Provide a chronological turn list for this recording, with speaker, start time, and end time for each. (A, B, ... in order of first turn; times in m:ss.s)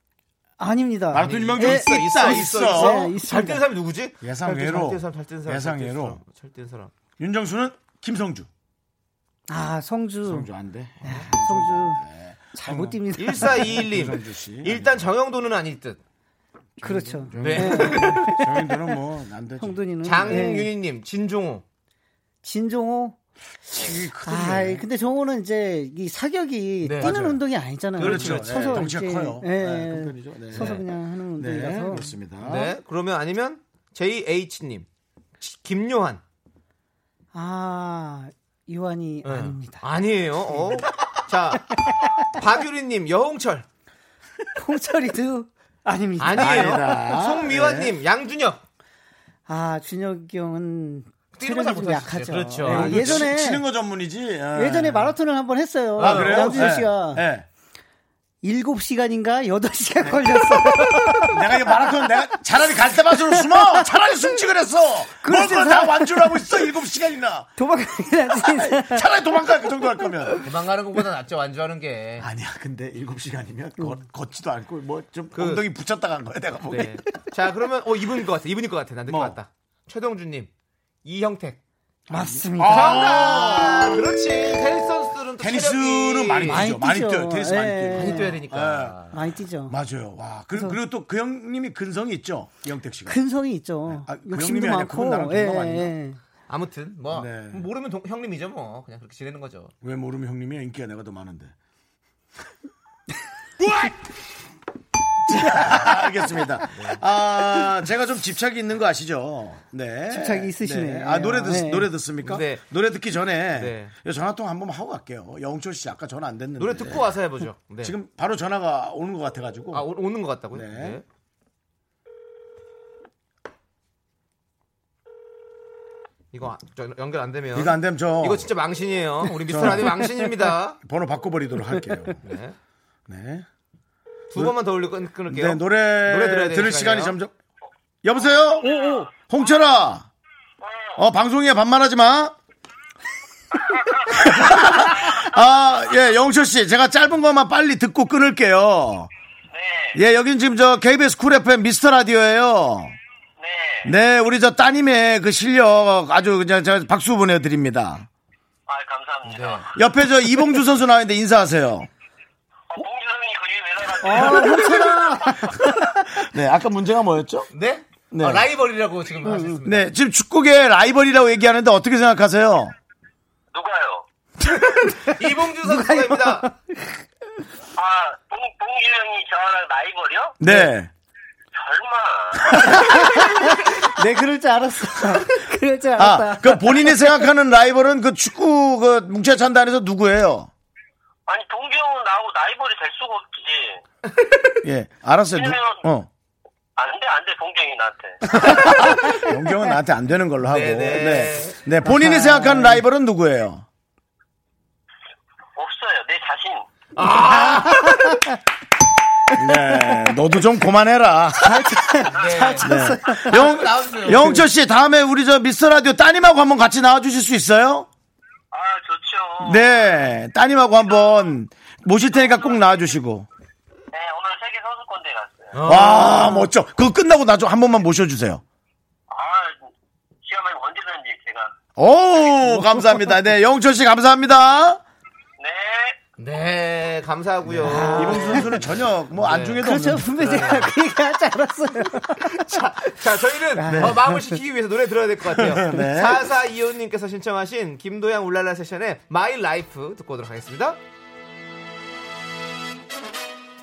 0:00.6-0:03.6 A
0:01.1-0:03.1 B
0:01.2-0:06.9 C
0:04.2-0:06.2 B
0:07.2-0:08.5 B
0:09.5-0:10.5 A
0:10.3-0:15.1 B
0:11.0-0:12.0 A
0:12.5-0:13.8 A
0:13.2-0:16.0 C
0:16.8-0:20.5 B
0:16.8-0:18.8 A
0:17.4-0:18.4 C
0:19.6-0:20.7 A
0:20.0-0:21.6 C
0:22.4-0:23.2 A
0:23.7-0:24.9 B
0:24.2-0:32.1 A
0:26.8-0:27.2 C
0:27.0-0:27.4 B
0:28.0-0:28.9 C
0:28.0-0:30.8 B
0:30.5-0:30.8 C
0:31.4-0:32.8 B
0:32.4-0:34.9 C
0:35.4-0:36.2 C
0:37.3-0:39.8 A
0:39.2-0:41.7 C
0:42.3-0:43.7 C
0:44.6-0:47.0 A
0:46.2-0:48.6 C
0:46.4-0:48.0 B
0:49.5-0:53.6 A
0:51.3-0:53.3 C
0:52.6-0:55.2 B
0:54.5-0:57.2 A
0:56.0-0:56.7 C
0:56.0-0:57.5 B
0:58.4-1:01.5 A
1:00.0-1:07.6 B
1:03.4-1:03.8 A
1:05.2-1:06.5 A
1:07.6-1:09.0 A
1:08.3-1:10.4 B
1:10.4-1:12.3 C
1:12.2-1:17.0 B
1:15.3-1:15.6 C
1:16.7-1:20.5 C
1:19.1-1:19.4 B
1:21.0-1:21.6 C
1:22.1-1:24.0 A
1:22.1-1:24.1 B
1:22.6-1:26.7 C
1:25.4-1:29.1 B
1:26.5-1:28.4 A
1:27.9-1:29.2 C
1:29.1-1:29.8 A
1:29.7-1:33.2 B
1:33.1-1:36.2 A
1:33.9-1:35.9 B
1:36.5-1:39.7 C
1:37.1-1:37.7 B
1:39.8-1:41.5 B
1:45.3-1:57.1 B
1:46.7-1:47.0 C
1:50.1-1:51.9 A
1:52.2-1:52.6 C
1:53.6-1:53.9 C
1:56.6-1:58.0 C
1:57.8-1:59.9 B
1:59.7-2:01.0 C
2:00.5-2:01.0 B
2:06.3-2:10.8 C
2:07.5-2:08.5 B
2:09.5-2:10.0 B
2:10.8-2:12.2 B
2:12.2-2:12.6 C
2:13.1-2:13.5 B
2:14.3-2:17.2 C
2:15.3-2:17.4 B
2:18.0-2:20.1 B
2:18.6-2:19.0 D
2:18.7-2:19.0 A
2:20.6-2:21.0 D
2:21.0-2:22.4 B
2:23.5-2:25.1 D
2:24.1-2:29.1 B
2:29.5-2:30.0 D
2:29.9-2:33.0 B
2:33.4-2:33.9 D
2:33.8-2:38.1 B
2:38.7-2:39.8 D
2:39.2-2:39.6 C
2:39.7-2:41.9 B
2:42.7-2:45.0 D
2:44.0-2:46.2 A
2:44.2-2:47.5 B
2:47.5-2:49.9 C
2:48.1-2:48.5 B
2:49.2-2:49.6 A
2:49.6-2:52.8 B
2:53.5-2:54.0 D
2:55.0-2:57.0 A
2:55.0-2:56.5 C
2:57.8-3:00.4 D
3:00.4-3:00.9 B
3:01.5-3:02.9 D
3:02.5-3:03.2 B
3:02.5-3:07.0 A
3:06.0-3:10.5 B
3:11.3-3:13.8 D
3:14.6-3:16.1 B
3:15.3-3:15.8 D
3:16.8-3:18.2 D
3:18.3-3:23.7 B
3:18.7-3:19.2 A
3:20.4-3:21.6 C
3:21.9-3:22.8 A
3:25.6-3:26.6 D
3:27.0-3:28.2 C
3:27.8-3:28.4 A
3:29.3-3:30.2 A
3:29.4-3:31.9 B
3:31.4-3:33.4 A
3:32.1-3:34.5 C
3:32.6-3:37.9 B
3:38.5-3:39.6 D
3:39.4-3:43.3 B
3:42.2-3:42.6 D
3:43.9-3:45.6 D
3:45.5-3:46.4 C
3:45.6-3:48.4 B
3:46.0-3:46.3 A
3:49.1-3:49.7 D
3:50.2-3:51.5 D
3:51.8-3:54.8 B
3:55.4-3:56.0 D
3:56.2-4:00.7 C
3:57.5-4:00.7 B
3:57.6-3:58.5 A
3:59.6-4:02.4 A
4:02.3-4:10.8 C
4:03.6-4:04.4 A
4:03.7-4:04.1 B
4:05.3-4:06.2 B